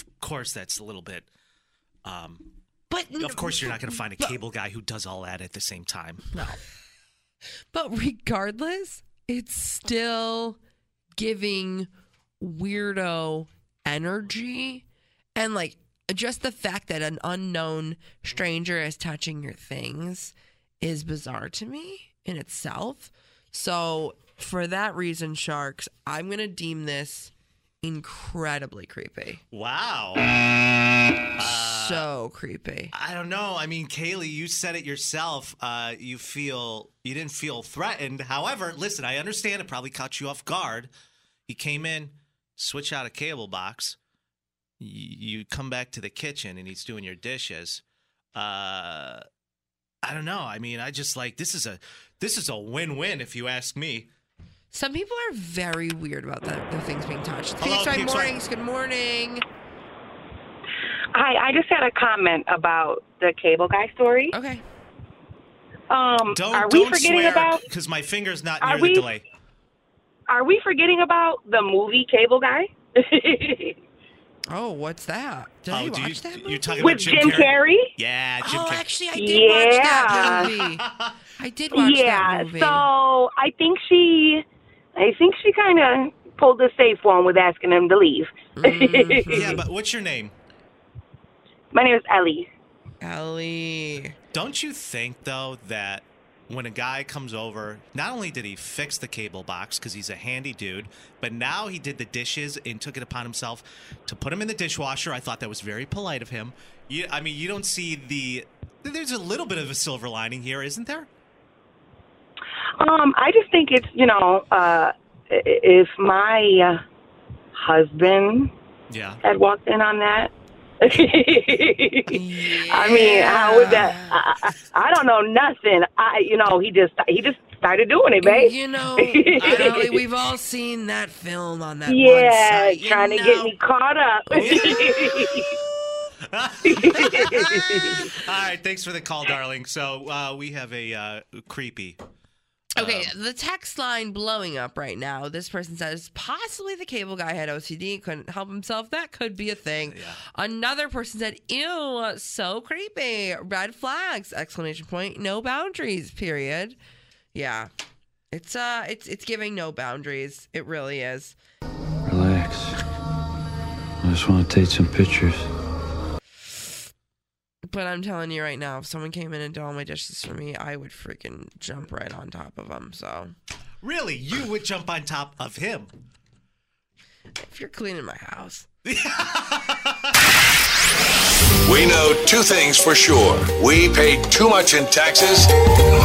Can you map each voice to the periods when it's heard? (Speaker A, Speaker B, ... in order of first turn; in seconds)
Speaker A: 0.2-1.3, 2.0-2.5, 3.2-6.3, 29.5-30.3, 31.4-32.0, 32.9-40.9, 41.5-44.0, 44.8-47.8, 48.3-49.2, 50.0-54.1, 57.6-58.4, 66.3-69.2, 75.7-78.8, 80.1-81.2, 89.3-90.3, 94.3-111.1, 118.9-119.2, 129.4-129.9, 134.3-135.4, 136.3-142.0, 142.8-143.1, 149.8-150.2, 173.8-175.9, 178.8-180.1
Speaker B: 2.9-4.4, 6.3-6.6, 7.7-10.6, 11.2-11.9, 12.4-14.8, 15.3-27.3, 27.8-29.4, 31.5-32.9, 54.7-59.4, 64.3-64.6, 74.5-77.0, 78.4-80.8, 81.4-82.8, 88.6-89.6, 93.0-94.1, 122.1-124.2, 128.2-133.5, 142.8-156.8, 157.3-157.7, 158.3-161.4, 167.7-173.3, 177.4-178.7
Speaker C: 61.1-64.3, 65.9-67.6, 68.6-69.1, 70.3-73.8, 76.8-77.9, 79.1-80.5, 81.7-84.4, 85.0-89.6, 91.7-92.5, 112.8-116.8, 117.6-118.5, 119.2-129.9, 131.9-135.6, 136.6-138.1
Speaker D: 162.1-162.8, 164.0-165.5
Speaker E: 181.6-185.5